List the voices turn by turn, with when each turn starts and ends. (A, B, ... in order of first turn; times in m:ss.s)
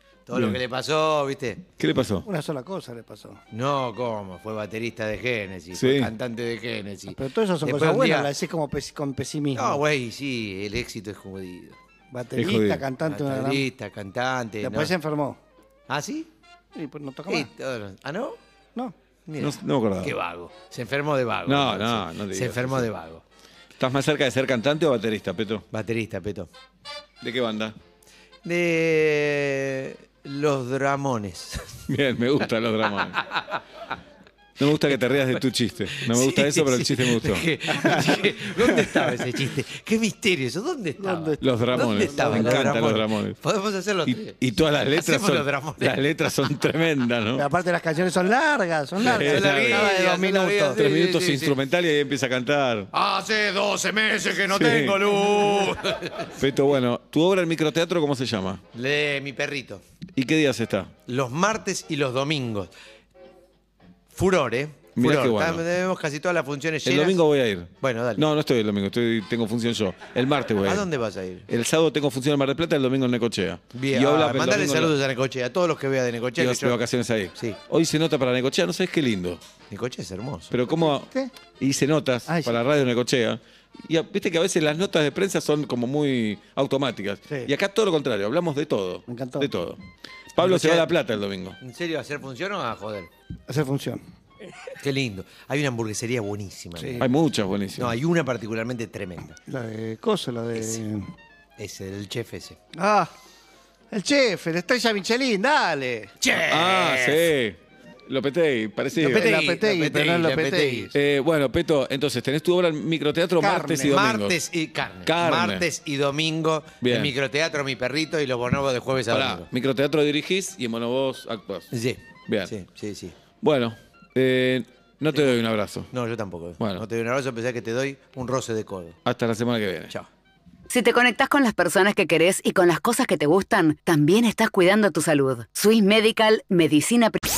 0:00.3-0:01.6 A
0:00.3-0:00.6 B
0:01.8-0:02.3 B
0:02.2-0:03.4 C
0:03.5-0:08.3 A
0:05.7-0:06.1 B
0:07.1-0:09.8 C
0:09.5-0:11.8 A
0:12.1-0:13.7 C
0:12.4-0:12.9 B
0:13.0-0:15.0 A
0:14.6-0:15.4 C
0:15.9-0:16.3 A
0:16.8-0:17.5 C
0:17.3-0:18.4 A
0:19.2-0:23.2 A
0:19.4-0:20.1 B
0:21.5-0:22.9 B
0:23.8-0:25.6 B
0:25.7-0:26.5 A
0:27.2-0:27.8 B
0:28.4-0:31.7 A
0:31.9-0:33.2 B
0:33.0-0:33.6 A
0:34.6-0:37.4 B
0:35.9-0:44.4 A
0:38.6-0:38.9 C
0:41.0-0:42.9 C
0:41.4-0:43.4 B
0:44.0-0:47.5 B
0:44.9-0:46.0 A
0:47.4-0:50.8 C
0:49.0-0:51.6 A
0:49.0-0:49.9 B
0:50.7-0:52.9 B
0:52.9-0:56.4 A
0:54.5-0:55.1 B
0:56.4-0:58.6 B
0:58.7-0:59.8 A
1:00.2-1:00.9 B
1:01.1-1:02.7 A
1:04.1-1:07.2 A
1:05.0-1:05.6 B
1:06.8-1:10.9 B
1:07.8-1:08.2 A
1:10.6-1:11.5 A
1:11.5-1:14.9 B
1:13.7-1:16.8 A
1:16.4-1:19.4 B
1:19.7-1:20.5 A
1:20.5-1:29.8 B
1:20.7-1:21.3 C
1:22.2-1:22.6 C
1:29.1-1:29.5 C
1:30.4-1:31.6 B
1:30.4-1:30.9 A
1:31.6-1:33.1 A
1:33.5-1:34.0 C
1:34.8-1:37.1 A
1:36.8-1:37.0 C
1:37.0-1:37.9 B
1:37.8-1:39.4 A
1:39.5-1:41.0 C
1:40.5-1:40.9 A
1:41.6-1:42.6 A
1:42.7-1:43.1 C
1:43.9-1:46.1 C
1:46.2-1:47.3 A
1:46.4-1:49.3 B
1:49.0-1:50.9 A
1:49.0-1:50.9 C
1:50.9-1:54.4 B
1:53.4-1:54.0 C
1:53.8-1:59.5 A
1:55.0-1:55.7 B
1:56.8-1:57.1 B
1:59.1-2:01.7 B
2:01.7-2:03.2 A
2:03.4-2:05.9 B
2:05.9-2:09.0 A
2:09.0-2:09.9 B
2:10.7-2:17.2 D